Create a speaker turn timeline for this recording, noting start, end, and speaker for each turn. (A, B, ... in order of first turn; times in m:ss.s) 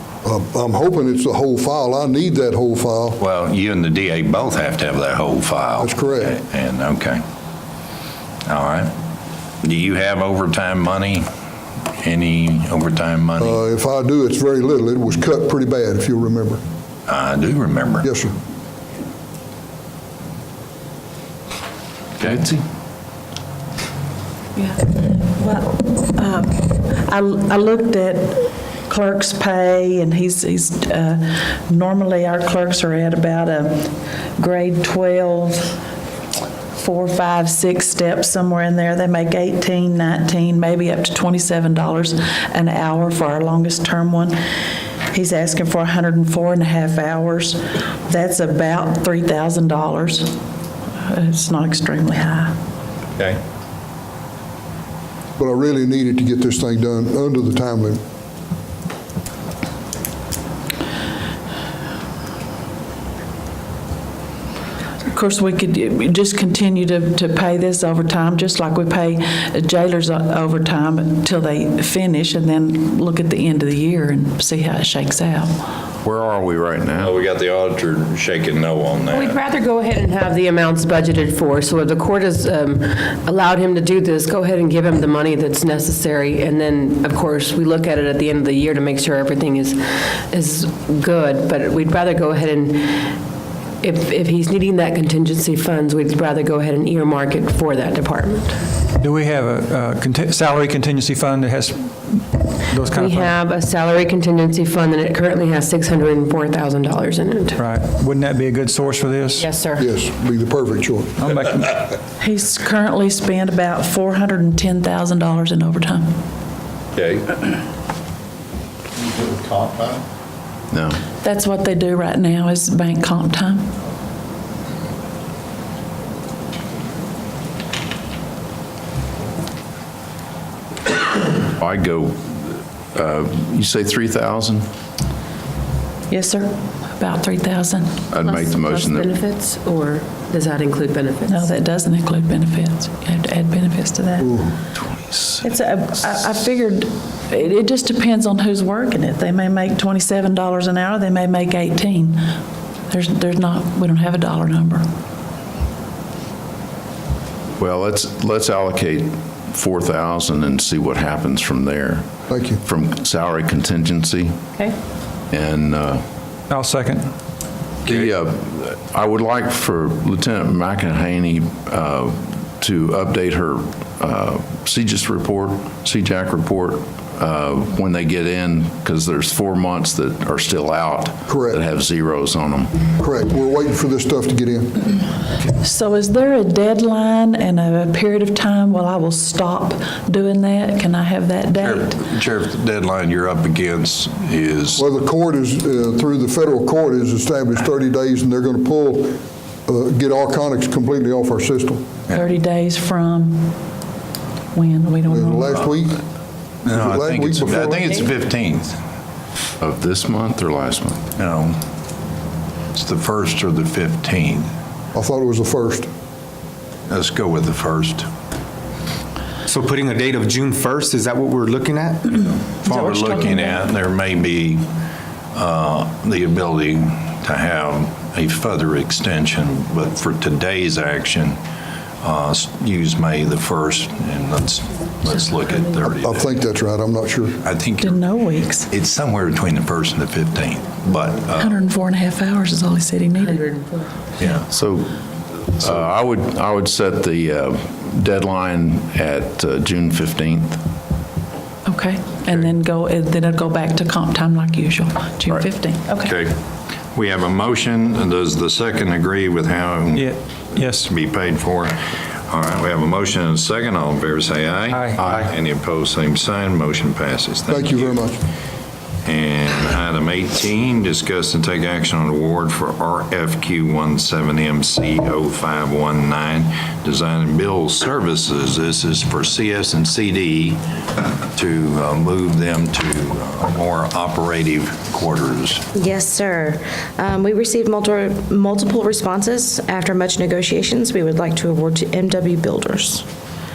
0:00.2-0:03.2 A
0:03.2-0:07.2 B
0:05.8-0:06.3 A
0:08.4-0:08.9 B
0:09.6-0:11.3 B
0:12.0-0:13.6 B
0:13.4-0:16.6 A
0:17.1-0:18.0 B
0:18.0-0:18.3 A
0:22.2-0:22.6 C
0:24.6-0:35.8 D
0:36.7-0:44.4 D
0:45.1-0:50.4 D
0:51.0-0:52.6 D
0:55.4-0:58.0 A
1:05.1-1:15.5 D
1:16.0-1:17.1 C
1:16.9-1:19.4 B
1:19.1-1:33.2 E
1:33.8-1:38.7 E
1:39.0-1:43.3 F
1:42.9-1:47.6 E
1:47.6-1:49.4 F
1:49.3-1:49.8 E
1:49.8-1:51.2 A
1:51.2-1:51.7 F
1:52.2-1:56.2 D
1:57.0-1:57.3 B
1:59.3-1:59.9 B
2:00.7-2:01.0 C
2:01.2-2:03.7 D
2:11.5-2:14.7 C
2:16.1-2:18.0 D
2:18.1-2:19.1 C
2:18.2-2:21.5 E
2:21.2-2:24.4 D
2:24.2-2:24.5 A
2:25.0-2:25.5 C
2:25.4-2:32.2 D
2:32.9-2:34.8 D
2:37.6-2:44.4 C
2:42.3-2:42.6 A
2:45.3-2:46.0 C
2:46.5-2:47.1 F
2:47.8-3:02.9 C
3:01.3-3:01.6 A
3:03.0-3:04.8 A
3:05.5-3:12.0 D
3:11.6-3:14.8 B
3:14.8-3:22.0 A
3:22.1-3:23.6 D
3:24.5-3:25.8 D
3:25.1-3:26.0 A
3:26.6-3:28.8 B
3:26.7-3:28.0 A
3:29.6-3:31.1 C
3:31.2-3:31.6 B
3:32.7-3:34.5 B
3:34.9-3:35.9 A
3:36.9-3:38.0 B
3:39.4-3:42.2 G
3:42.6-3:44.6 B
3:42.7-3:43.6 D
3:45.3-3:51.4 B
3:52.0-3:56.4 B
3:56.0-3:57.4 A
3:57.4-4:01.6 B
3:57.8-3:58.7 D
4:01.3-4:03.5 D
4:03.2-4:03.9 E
4:04.2-4:04.4 B
4:04.4-4:10.6 C
4:11.6-4:16.1 D
4:16.0-4:16.3 B
4:16.9-4:21.8 B
4:20.0-4:20.8 F
4:22.3-4:28.0 B
4:25.0-4:25.3 G
4:27.5-4:28.2 A
4:29.0-4:40.6 B
4:41.3-4:45.6 B
4:45.7-4:53.0 H